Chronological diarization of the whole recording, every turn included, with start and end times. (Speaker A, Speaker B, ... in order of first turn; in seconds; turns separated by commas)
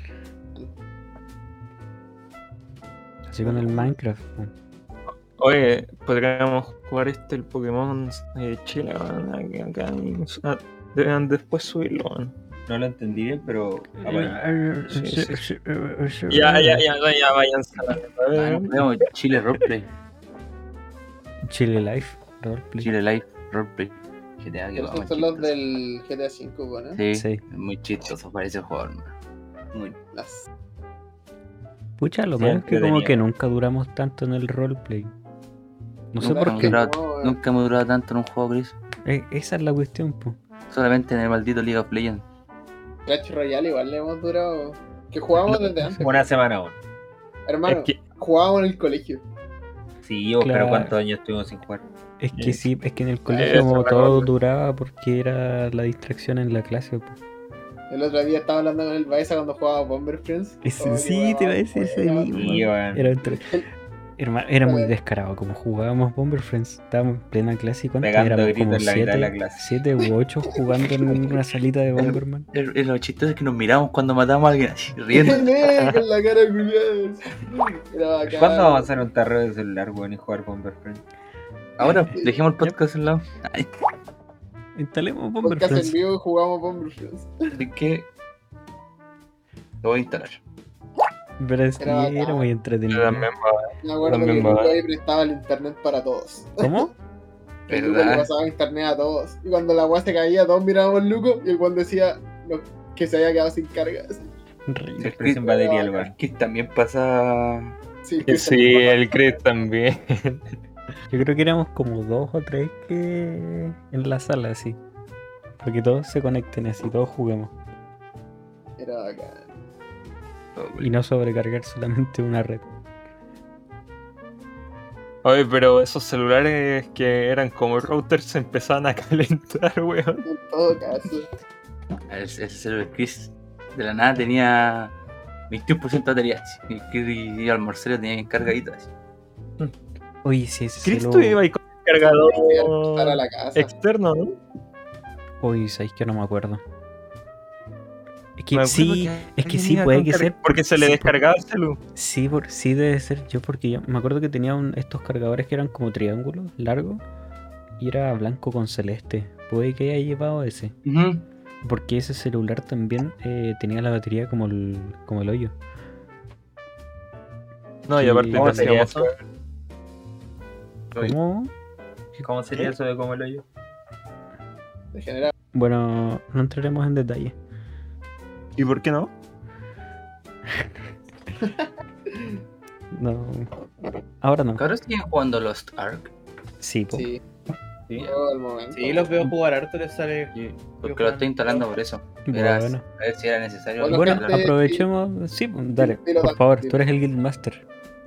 Speaker A: 3.3-4.5, Speaker B: 3.5-3.9, Speaker C: 5.4-12.3, Speaker D: 12.7-14.4, Speaker A: 14.0-16.9, Speaker C: 14.9-15.4, Speaker C: 16.3-19.1, Speaker E: 18.4-19.9, Speaker A: 21.4-22.9, Speaker E: 22.8-25.5, Speaker B: 24.8-27.0, Speaker E: 26.9-29.1, Speaker A: 27.1-27.4, Speaker B: 30.1-30.5, Speaker A: 32.0-35.1, Speaker D: 32.4-33.2, Speaker A: 36.1-36.8, Speaker E: 36.2-38.8, Speaker B: 36.2-37.4, Speaker A: 39.0-40.4, Speaker E: 40.7-42.2, Speaker B: 43.1-46.2, Speaker D: 46.0-46.8, Speaker B: 47.5-49.2, Speaker C: 47.7-48.0, Speaker D: 50.0-51.8, Speaker A: 50.4-50.9, Speaker A: 52.2-57.2, Speaker B: 53.3-54.3, Speaker C: 53.4-54.2, Speaker B: 57.9-62.6, Speaker A: 60.6-63.6, Speaker D: 62.3-63.1, Speaker B: 63.2-63.6, Speaker A: 64.2-72.5, Speaker B: 64.7-64.9, Speaker D: 68.0-69.7, Speaker E: 72.0-75.6, Speaker B: 75.1-78.9, Speaker D: 78.3-81.0, Speaker E: 81.8-83.7, Speaker B: 82.1-82.4, Speaker A: 84.8-86.0, Speaker B: 85.4-87.4, Speaker E: 87.5-88.1, Speaker E: 89.8-90.4, Speaker A: 91.4-93.3, Speaker B: 91.8-92.5, Speaker C: 92.9-94.8, Speaker B: 93.8-96.8, Speaker A: 96.6-96.9, Speaker B: 97.7-104.3, Speaker E: 97.7-98.3, Speaker A: 104.7-105.3, Speaker E: 105.0-105.4, Speaker D: 105.0-106.1, Speaker B: 105.4-106.0, Speaker E: 106.0-107.8, Speaker B: 108.0-109.4, Speaker C: 108.2-110.5, Speaker A: 111.1-114.8, Speaker A: 115.6-117.5, Speaker B: 118.8-119.5, Speaker E: 120.6-120.8, Speaker A: 120.8-122.7, Speaker C: 125.2-130.2, Speaker B: 130.2-131.3, Speaker E: 132.1-134.9, Speaker E: 135.5-138.9, Speaker A: 140.2-141.4, Speaker C: 140.8-144.4, Speaker B: 142.0-143.7, Speaker A: 145.4-146.6, Speaker A: 148.4-151.2, Speaker C: 148.5-151.8, Speaker A: 151.9-157.0, Speaker A: 157.8-160.8, Speaker E: 160.8-161.2, Speaker A: 161.6-165.5, Speaker C: 167.9-169.2, Speaker A: 167.9-168.8, Speaker D: 168.3-169.1, Speaker A: 171.0-171.5, Speaker D: 172.2-173.4, Speaker B: 174.9-175.3, Speaker A: 175.5-177.3, Speaker C: 178.6-179.1, Speaker B: 181.4-182.4, Speaker A: 182.9-183.5, Speaker A: 184.2-184.7, Speaker E: 184.6-186.1, Speaker A: 186.6-187.1, Speaker B: 186.9-187.2, Speaker B: 187.9-189.1, Speaker F: 188.7-191.7, Speaker E: 190.3-194.5, Speaker A: 192.2-192.8, Speaker B: 193.8-194.9, Speaker A: 193.9-197.6, Speaker B: 195.8-196.8